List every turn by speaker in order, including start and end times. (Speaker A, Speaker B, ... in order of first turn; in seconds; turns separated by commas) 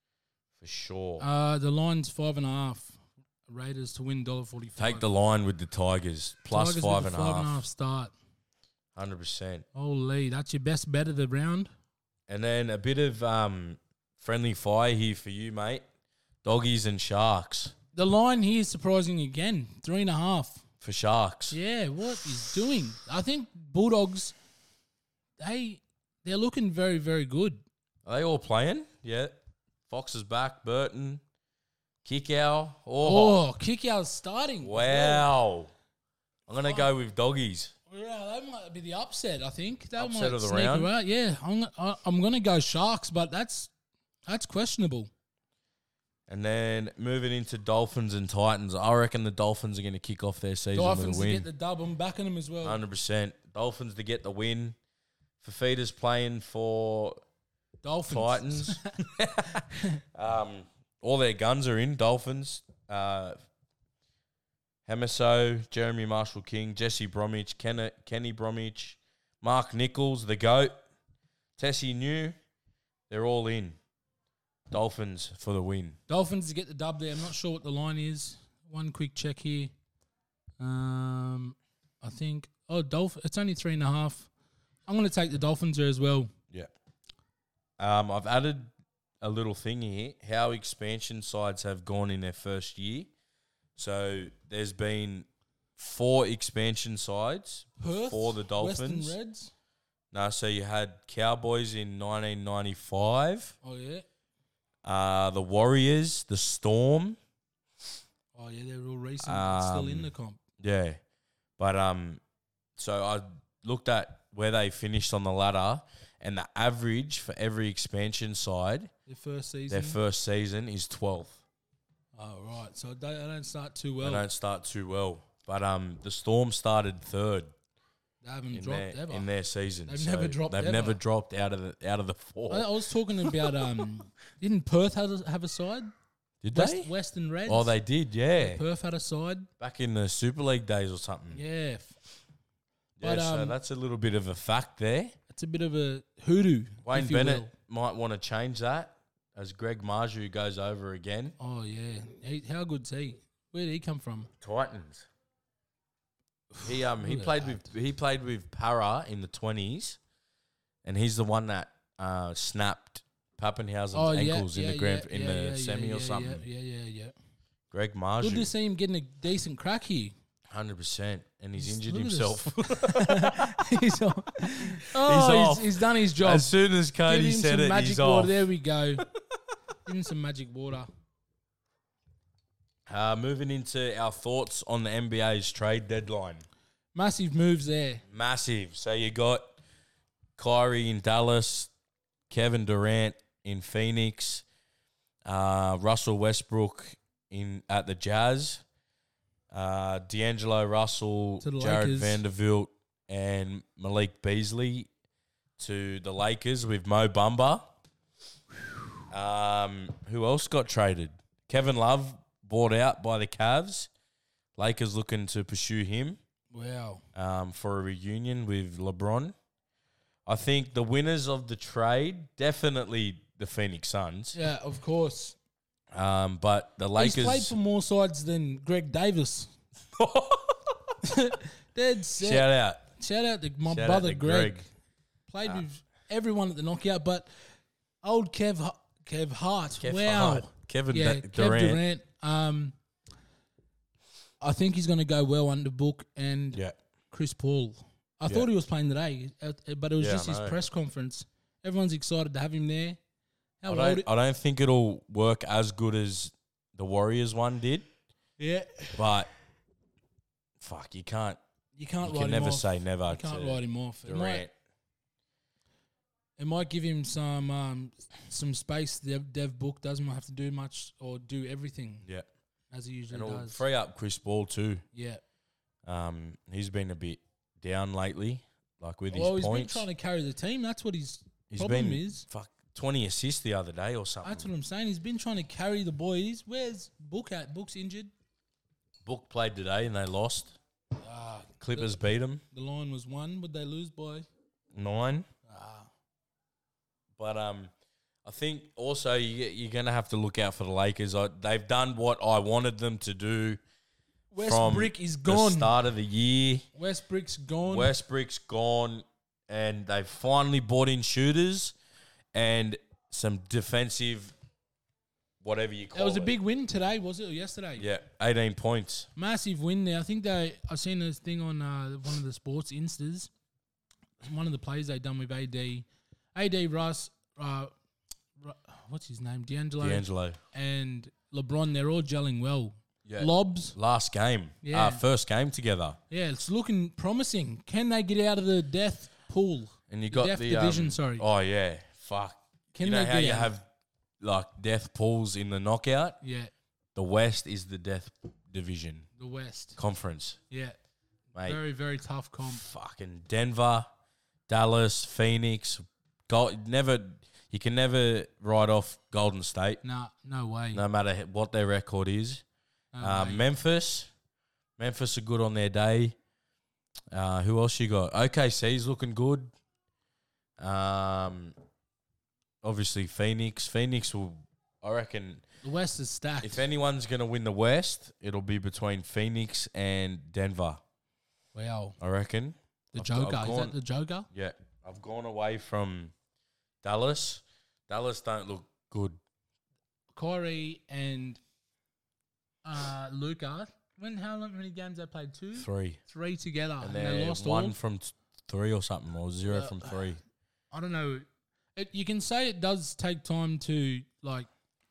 Speaker A: 0.6-1.3, Speaker B: 1.2-5.1, Speaker A: 4.8-7.7, Speaker B: 6.5-8.1, Speaker A: 8.9-9.7, Speaker B: 9.8-11.7, Speaker A: 12.3-15.8, Speaker A: 16.4-17.8, Speaker B: 17.9-20.6, Speaker A: 20.8-21.6, Speaker B: 21.5-24.4, Speaker B: 25.4-27.6, Speaker A: 28.1-31.2, Speaker A: 32.0-33.4, Speaker B: 33.0-35.3, Speaker A: 34.6-35.7, Speaker A: 36.5-37.8, Speaker B: 37.9-43.7, Speaker A: 40.0-40.9, Speaker B: 44.3-45.1, Speaker A: 46.3-51.5, Speaker B: 50.7-52.8, Speaker A: 52.6-54.8, Speaker A: 55.4-57.2, Speaker B: 57.8-59.0, Speaker A: 58.1-63.4, Speaker B: 59.5-60.0, Speaker A: 64.9-70.8, Speaker A: 71.6-72.4, Speaker A: 73.1-73.8, Speaker A: 74.7-76.0, Speaker B: 76.1-79.7, Speaker B: 80.6-84.3, Speaker B: 84.9-86.3, Speaker A: 87.8-88.7, Speaker A: 89.2-93.1, Speaker A: 93.8-99.2, Speaker B: 97.8-99.5, Speaker A: 100.1-103.6, Speaker B: 103.6-104.1, Speaker A: 104.8-107.2, Speaker B: 108.3-110.4, Speaker A: 109.2-111.0, Speaker A: 111.6-112.2, Speaker A: 112.8-118.9, Speaker B: 119.1-120.0, Speaker A: 119.7-121.4, Speaker B: 122.2-124.3, Speaker A: 124.0-127.5, Speaker B: 128.2-129.3, Speaker A: 128.5-133.9, Speaker B: 129.9-131.0, Speaker B: 132.5-135.9, Speaker A: 136.4-136.9, Speaker B: 136.5-137.8, Speaker A: 137.5-138.6, Speaker B: 138.4-139.5, Speaker A: 139.6-141.4, Speaker B: 141.3-142.0, Speaker A: 143.0-145.2, Speaker B: 143.0-143.6, Speaker B: 145.3-147.5, Speaker A: 146.8-151.4, Speaker B: 151.4-154.3, Speaker A: 154.4-155.1, Speaker B: 156.5-157.7, Speaker A: 156.6-160.0, Speaker A: 160.8-166.4, Speaker B: 163.9-167.1, Speaker A: 167.7-168.5, Speaker B: 168.2-170.1, Speaker A: 170.5-173.6, Speaker B: 171.6-176.5, Speaker A: 174.6-178.5, Speaker B: 177.1-179.1, Speaker B: 179.8-180.9, Speaker A: 182.9-186.4, Speaker B: 186.9-188.0, Speaker A: 188.1-189.6, Speaker A: 190.4-191.7, Speaker A: 192.3-194.4, Speaker A: 195.3-198.6, Speaker A: 199.5-204.9, Speaker B: 201.4-202.2, Speaker A: 205.6-207.7, Speaker A: 209.1-213.9, Speaker A: 214.6-216.2, Speaker B: 216.5-217.0, Speaker A: 217.1-219.3, Speaker A: 220.3-224.4, Speaker B: 224.3-225.4, Speaker A: 225.9-227.6, Speaker B: 227.0-229.5, Speaker A: 229.9-230.9, Speaker B: 231.0-234.6, Speaker A: 232.2-232.9, Speaker A: 233.7-234.6, Speaker B: 235.3-237.3, Speaker B: 238.0-242.8, Speaker A: 239.8-241.8, Speaker B: 244.4-246.6, Speaker B: 247.1-253.0, Speaker A: 250.0-250.6, Speaker B: 253.6-254.1, Speaker A: 253.7-257.9, Speaker B: 258.4-259.0, Speaker A: 258.9-259.3, Speaker A: 260.6-261.4, Speaker B: 261.8-264.4, Speaker A: 262.0-264.5, Speaker B: 266.4-272.1, Speaker B: 272.7-273.6, Speaker A: 273.1-274.8, Speaker B: 274.9-275.2, Speaker A: 275.9-279.9, Speaker B: 279.1-282.3, Speaker A: 281.5-284.5, Speaker B: 284.2-288.1, Speaker A: 289.1-290.6, Speaker B: 291.0-291.9, Speaker A: 291.6-292.4, Speaker B: 292.5-294.3, Speaker A: 294.7-295.3, Speaker B: 295.5-295.9, Speaker A: 297.2-297.7, Speaker A: 298.2-303.6, Speaker B: 304.3-305.7, Speaker A: 304.4-306.7, Speaker B: 306.8-307.9, Speaker A: 307.6-311.8, Speaker A: 312.3-314.3, Speaker A: 315.4-316.3, Speaker B: 315.9-317.9, Speaker A: 317.8-319.1, Speaker B: 319.2-323.3, Speaker B: 324.2-327.7, Speaker B: 328.4-333.8, Speaker A: 329.8-330.4, Speaker A: 333.1-336.0, Speaker B: 334.6-335.0, Speaker B: 336.1-341.2, Speaker A: 339.9-343.7, Speaker B: 342.7-343.5, Speaker A: 344.2-346.2, Speaker B: 346.2-346.5, Speaker A: 346.9-349.1, Speaker B: 349.2-349.8, Speaker A: 349.8-350.4, Speaker B: 350.5-350.8, Speaker A: 351.4-351.6, Speaker B: 351.4-352.6, Speaker A: 352.4-353.9, Speaker A: 354.5-359.8, Speaker B: 359.8-360.8, Speaker A: 360.7-362.4, Speaker B: 362.9-363.4, Speaker A: 363.0-364.1, Speaker A: 364.8-366.2, Speaker A: 367.1-369.5, Speaker A: 370.6-371.5, Speaker A: 372.6-375.4, Speaker B: 375.6-376.7, Speaker A: 376.4-380.8, Speaker B: 381.5-382.0, Speaker A: 382.0-383.8, Speaker B: 382.9-384.3, Speaker A: 384.3-386.1, Speaker A: 386.8-389.2, Speaker B: 390.1-391.4, Speaker B: 392.6-397.8, Speaker A: 395.6-396.0, Speaker A: 396.8-400.2, Speaker B: 399.5-400.0, Speaker B: 400.7-404.5